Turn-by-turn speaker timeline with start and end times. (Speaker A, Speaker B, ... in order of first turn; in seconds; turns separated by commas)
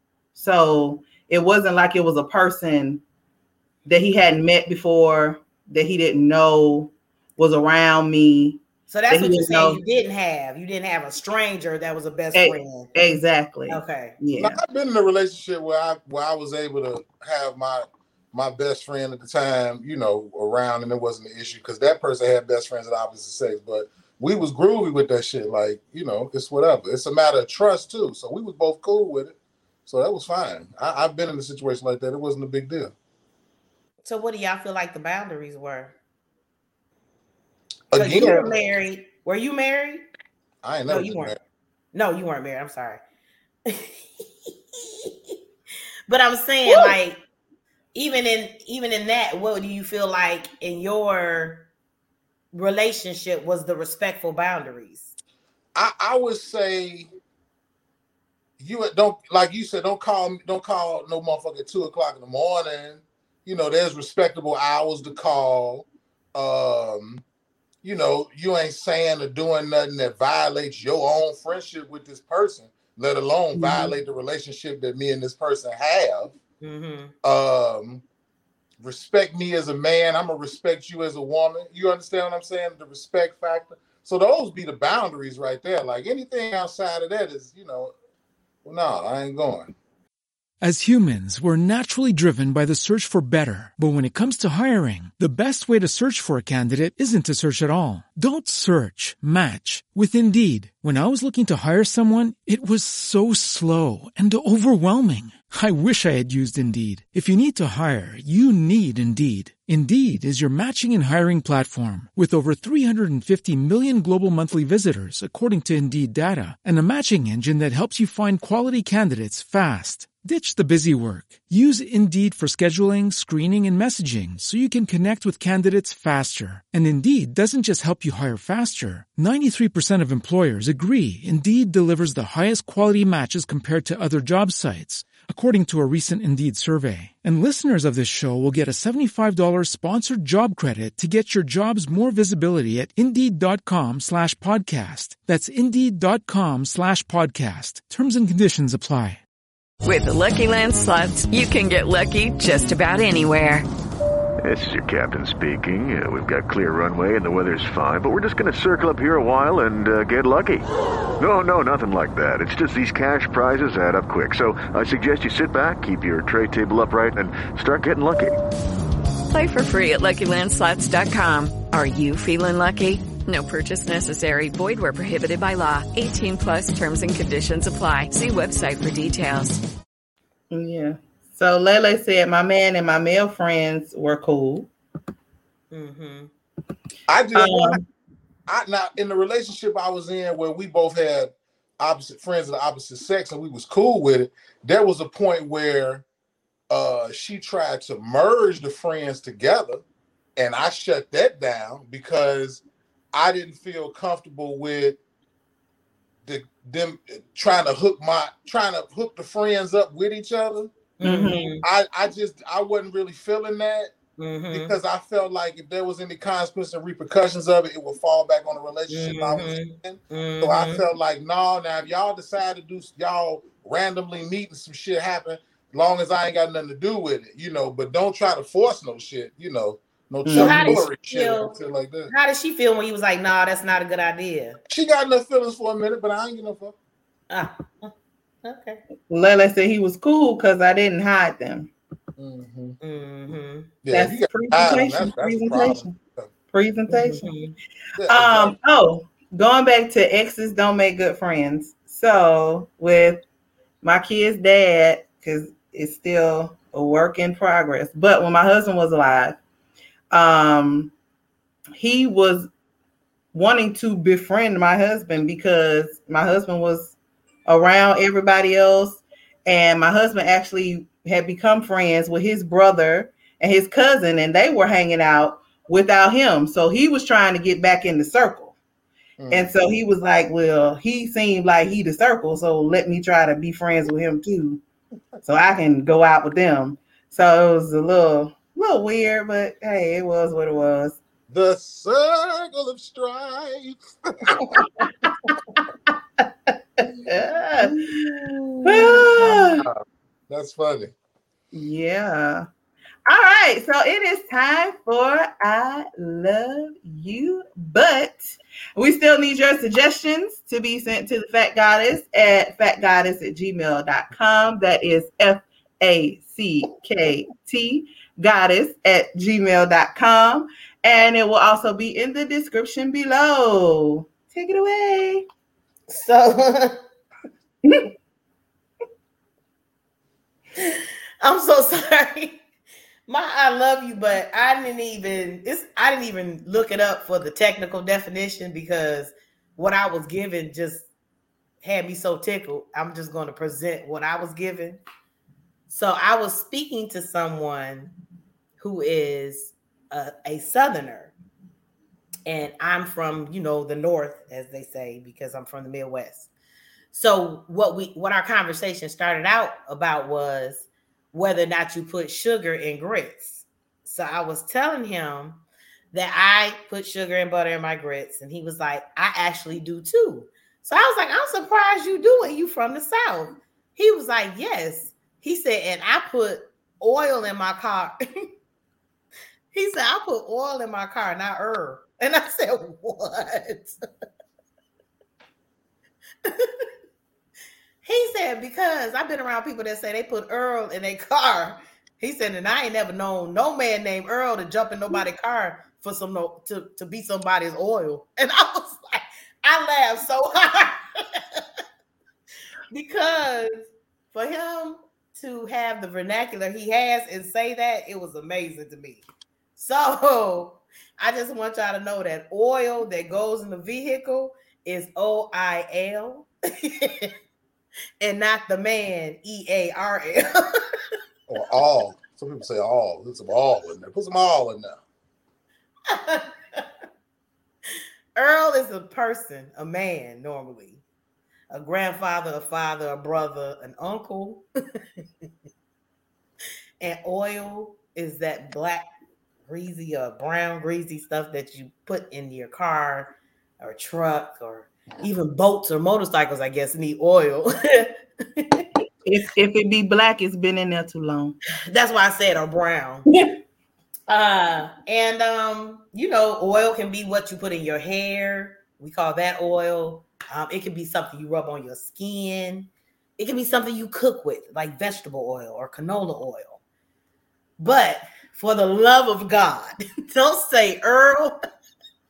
Speaker A: 0.3-3.0, Speaker A: 3.8-9.8, Speaker B: 8.9-12.9, Speaker A: 12.3-14.6, Speaker B: 13.7-14.2, Speaker C: 14.4-32.9, Speaker B: 34.0-36.0, Speaker C: 37.9-38.5, Speaker B: 37.9-40.0, Speaker C: 40.6-41.4, Speaker B: 40.9-41.3, Speaker B: 41.9-43.0, Speaker B: 43.6-44.0, Speaker B: 44.7-45.3, Speaker B: 46.1-47.2, Speaker A: 46.7-46.9, Speaker B: 47.9-51.7, Speaker B: 52.5-55.1, Speaker C: 55.7-57.1, Speaker C: 58.6-67.2, Speaker C: 67.8-76.3, Speaker A: 73.5-73.9, Speaker B: 76.6-77.1, Speaker C: 77.2-78.0, Speaker C: 78.8-87.9, Speaker C: 88.6-89.7, Speaker D: 90.6-149.2, Speaker E: 149.8-153.7, Speaker F: 154.4-160.7, Speaker F: 161.2-168.4, Speaker E: 169.3-179.6, Speaker A: 180.5-184.7, Speaker B: 185.7-186.3, Speaker C: 187.1-187.8, Speaker A: 187.3-187.8, Speaker C: 188.5-196.0, Speaker C: 196.7-199.8, Speaker C: 200.4-202.6, Speaker C: 203.1-205.0, Speaker C: 206.2-210.7, Speaker B: 211.0-211.6, Speaker A: 211.0-211.5, Speaker C: 211.6-213.9, Speaker B: 214.2-214.8, Speaker C: 214.5-232.1, Speaker B: 218.9-220.8, Speaker A: 230.2-230.8, Speaker B: 230.3-231.5, Speaker B: 232.1-234.6, Speaker C: 234.7-236.7, Speaker B: 237.3-237.9, Speaker B: 238.4-238.8, Speaker A: 239.1-241.7, Speaker C: 242.2-242.8, Speaker B: 242.8-243.7, Speaker C: 243.8-246.3, Speaker A: 243.9-245.9, Speaker A: 246.5-247.2, Speaker B: 246.9-247.6, Speaker C: 247.9-248.6, Speaker A: 248.1-253.2, Speaker A: 253.8-259.4, Speaker A: 260.1-260.9, Speaker A: 261.7-262.5, Speaker A: 263.3-266.9, Speaker A: 267.4-278.6, Speaker C: 279.2-279.5, Speaker A: 279.3-284.6, Speaker A: 285.2-291.0, Speaker C: 291.3-294.4, Speaker A: 294.5-295.3, Speaker A: 296.8-297.8, Speaker C: 297.6-300.9, Speaker A: 298.6-299.6, Speaker A: 301.5-302.4, Speaker A: 303.1-325.2, Speaker B: 325.9-326.8, Speaker B: 330.6-332.4, Speaker B: 333.1-340.9, Speaker B: 341.6-344.8, Speaker B: 345.7-347.9, Speaker B: 348.6-351.1, Speaker B: 352.2-356.3, Speaker B: 356.9-365.4, Speaker B: 365.9-377.9, Speaker B: 379.5-383.8, Speaker B: 386.2-386.7, Speaker B: 387.8-401.4, Speaker B: 402.7-409.0, Speaker B: 409.6-417.1, Speaker B: 418.0-420.8, Speaker C: 421.3-424.8, Speaker B: 425.9-426.7, Speaker B: 428.1-430.8, Speaker B: 431.5-434.8, Speaker B: 436.8-438.9, Speaker B: 439.4-448.6, Speaker A: 449.0-451.4, Speaker B: 451.7-453.1, Speaker B: 454.1-466.6, Speaker B: 467.6-471.4